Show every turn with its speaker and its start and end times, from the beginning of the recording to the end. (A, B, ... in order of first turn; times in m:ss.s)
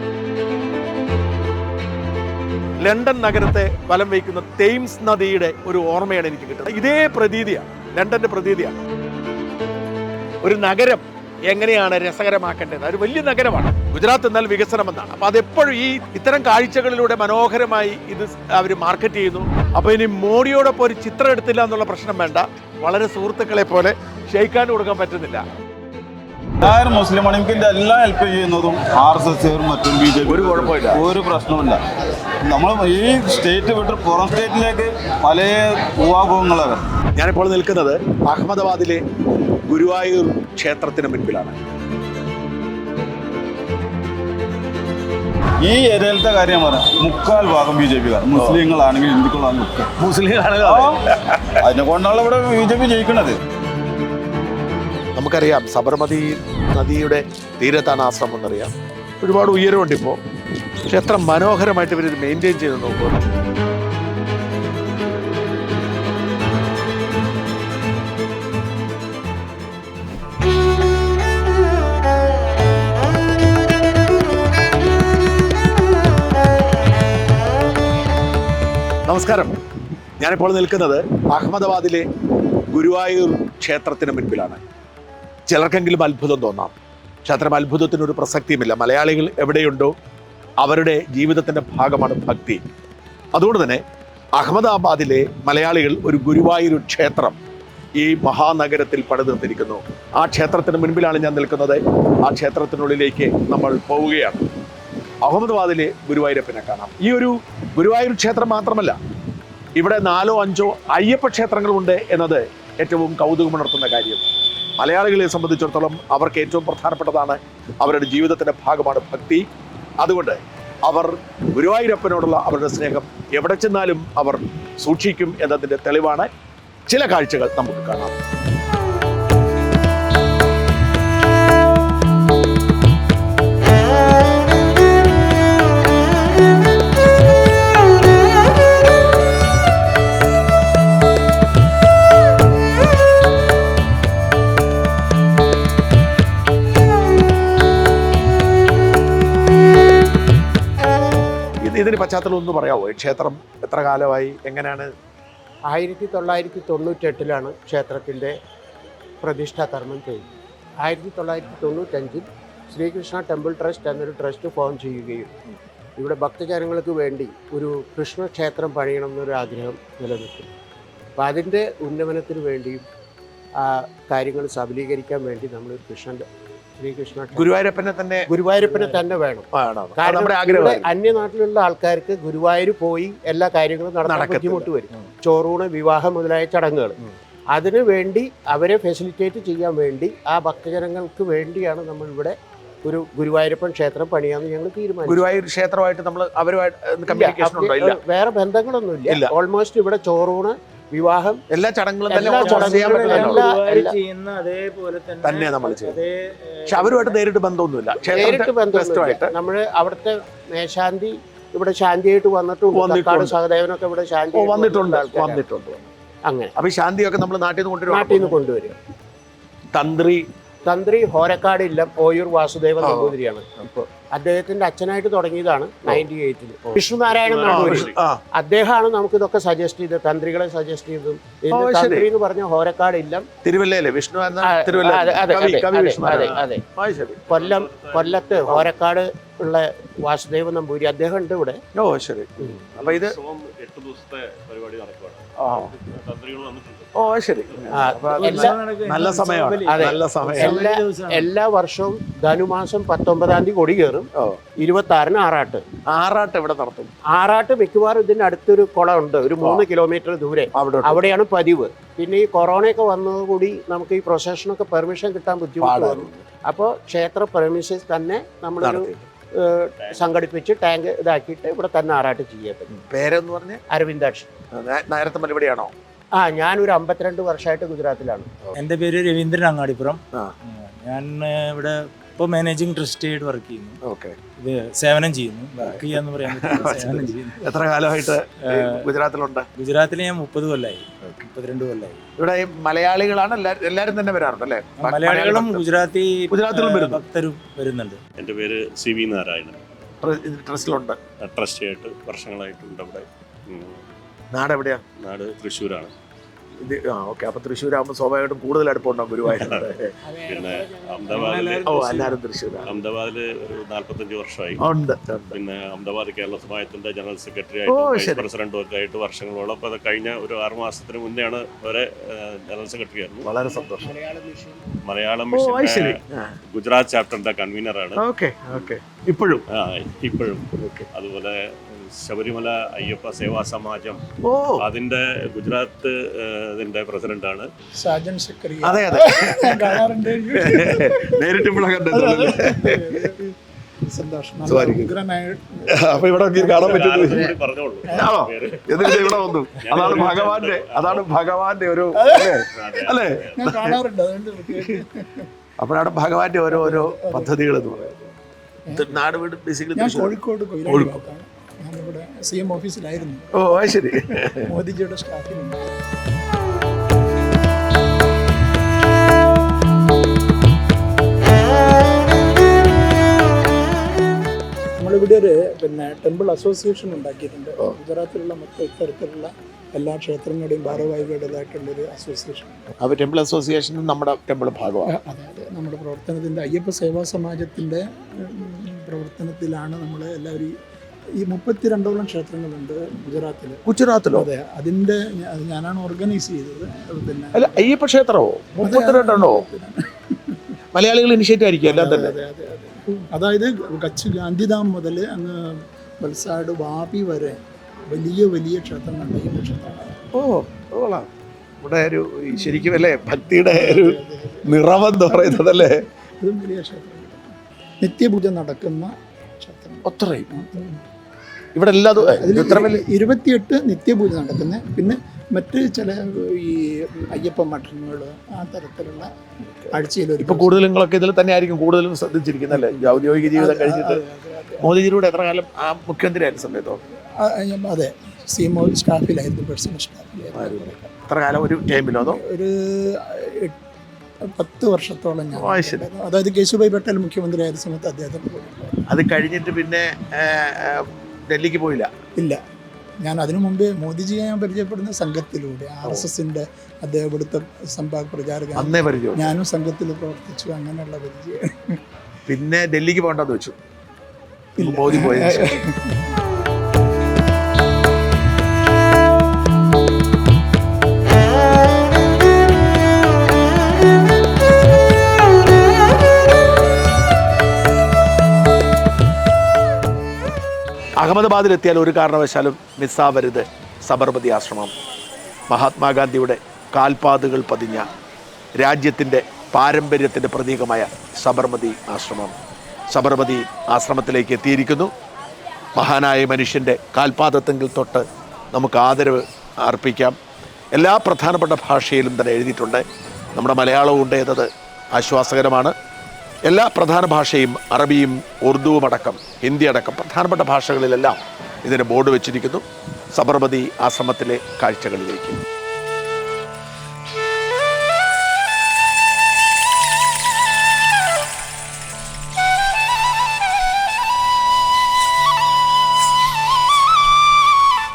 0:02.8-0:08.8 A
0:10.4-0:25.4 A
0:26.6-0:31.8 B
0:30.2-0:31.0 A
0:32.4-0:36.8 B
0:37.2-0:39.0 A
0:39.7-0:41.6 A
0:45.6-0:49.9 B
0:48.3-0:48.6 A
0:50.0-0:51.6 A
0:50.6-0:51.0 B
0:51.6-0:53.4 B
0:55.2-1:00.2 A
1:00.8-1:03.2 A
1:19.0-1:19.6 A
1:20.2-1:22.0 A
1:22.7-1:24.6 A
1:25.5-1:29.9 A
1:30.6-1:32.6 A
1:33.3-1:33.8 A
1:34.4-1:37.4 A
1:38.0-1:44.4 A
1:45.2-1:49.0 A
1:49.8-1:54.2 A
1:54.8-1:59.4 A
2:00.0-2:06.3 A
2:06.9-2:08.1 A
2:31.6-2:34.9 A
2:35.7-2:38.4 C
2:39.2-2:40.2 C
2:40.8-2:45.3 C
2:46.0-2:50.5 C
2:51.2-2:52.8 C
2:53.6-2:56.3 C
2:56.8-2:57.5 C
2:57.3-2:58.3 A
2:58.3-3:07.0 C
2:58.6-2:59.0 D
2:59.5-3:00.9 A
3:04.0-3:04.7 A
3:07.5-3:15.2 C
3:15.0-3:18.0 A
3:17.1-3:21.4 C
3:19.1-3:19.3 A
3:21.5-3:23.5 A
3:22.1-3:24.0 C
3:22.2-3:27.2 D
3:25.2-3:26.0 A
3:26.7-3:29.3 A
3:28.1-3:35.4 C
3:32.7-3:33.4 A
3:34.3-3:35.9 A
3:36.3-3:36.5 C
3:36.6-3:38.4 A
3:37.9-3:38.8 C
3:39.7-3:40.2 A
3:40.6-3:53.3 C
3:42.8-3:43.1 A
3:47.1-3:48.0 E
3:47.4-3:48.2 A
3:51.5-3:52.1 A
3:53.4-3:57.3 A
3:54.4-3:56.6 C
3:56.1-3:56.4 E
3:57.1-3:58.6 E
3:57.3-4:01.6 C
4:01.7-4:03.2 A
4:02.7-4:07.8 E
4:05.4-4:05.7 A
4:06.9-4:10.7 A
4:07.7-4:08.6 C
4:07.9-4:11.3 D
4:09.7-4:15.6 C
4:14.1-4:14.4 A
4:15.8-4:16.9 A
4:17.1-4:32.8 C
4:20.5-4:21.0 A
4:25.6-4:26.2 A
4:28.6-4:29.0 A
4:29.8-4:30.2 E
4:32.7-4:33.6 A
4:33.7-4:34.3 C
4:34.5-4:35.7 A
4:36.1-4:38.4 C
4:38.6-4:43.8 D
4:43.8-4:44.2 A
4:44.4-4:47.4 D
4:45.6-4:49.5 A
4:48.5-4:48.9 D
4:49.6-4:52.0 D
4:52.2-4:55.7 A
4:54.8-4:58.0 D
4:56.3-4:57.0 A
4:58.2-4:59.6 E
5:00.0-5:01.0 A
5:01.2-5:03.8 E
5:04.3-5:04.8 A
5:05.0-5:05.9 E
5:06.6-5:10.0 A
5:09.2-5:11.7 E
5:10.1-5:12.2 D
5:11.6-5:12.8 A
5:12.6-5:14.6 E
5:14.6-5:15.4 A
5:15.3-5:23.3 E
5:17.7-5:18.2 A
5:23.2-5:24.0 A
5:24.0-5:24.5 D
5:24.8-5:28.0 E
5:25.3-5:26.4 A
5:28.0-5:29.4 A
5:29.5-5:34.0 E
5:30.6-5:30.9 A
5:34.2-5:34.6 A
5:34.6-5:37.5 E
5:37.8-5:41.3 F
5:38.6-5:43.1 A
5:41.9-5:43.3 F
5:43.9-5:47.3 F
5:44.4-5:44.9 A
5:45.7-5:47.3 A
5:46.4-5:51.1 E
5:47.9-5:53.8 A
5:52.0-5:52.4 F
5:52.5-5:53.4 E
5:53.4-5:55.3 F
5:55.6-5:58.1 A
5:56.5-5:57.9 F
5:58.7-5:58.9 F
5:58.7-6:00.1 A
5:59.8-6:05.6 F
6:00.6-6:01.0 A
6:03.3-6:04.5 A
6:14.8-6:22.6 F
6:22.8-6:24.9 A
6:24.9-6:30.5 F
6:31.2-6:33.6 F
6:33.6-6:34.2 A
6:34.1-6:37.7 F
6:37.3-6:39.4 A
6:38.6-6:40.5 F
6:40.7-6:42.1 A
6:41.6-6:47.4 F
6:47.9-6:50.0 F
6:50.1-6:51.1 A
6:51.6-6:55.8 A
6:53.5-6:54.5 F
6:55.0-6:57.3 F
6:57.8-7:00.8 F
6:59.8-7:00.3 A
7:01.5-7:02.8 A
7:02.0-7:09.1 F
7:09.5-7:14.0 A
7:09.7-7:10.6 F
7:12.5-7:14.7 F
7:14.6-7:16.8 A
7:17.2-7:20.9 F
7:20.3-7:22.2 A
7:22.0-7:23.6 F
7:24.2-7:28.7 F
7:25.3-7:25.8 A
7:28.9-7:31.9 A
7:33.0-7:41.8 F
7:38.5-7:39.3 A
7:42.3-7:43.6 A
7:44.6-7:46.1 F
7:44.6-7:45.6 A
8:01.0-8:04.7 A
8:05.5-8:07.9 A
8:08.6-8:12.4 A
8:12.9-8:14.9 A
8:15.8-8:20.2 A
8:20.7-8:22.8 A
8:23.4-8:25.7 A
8:26.5-8:35.4 A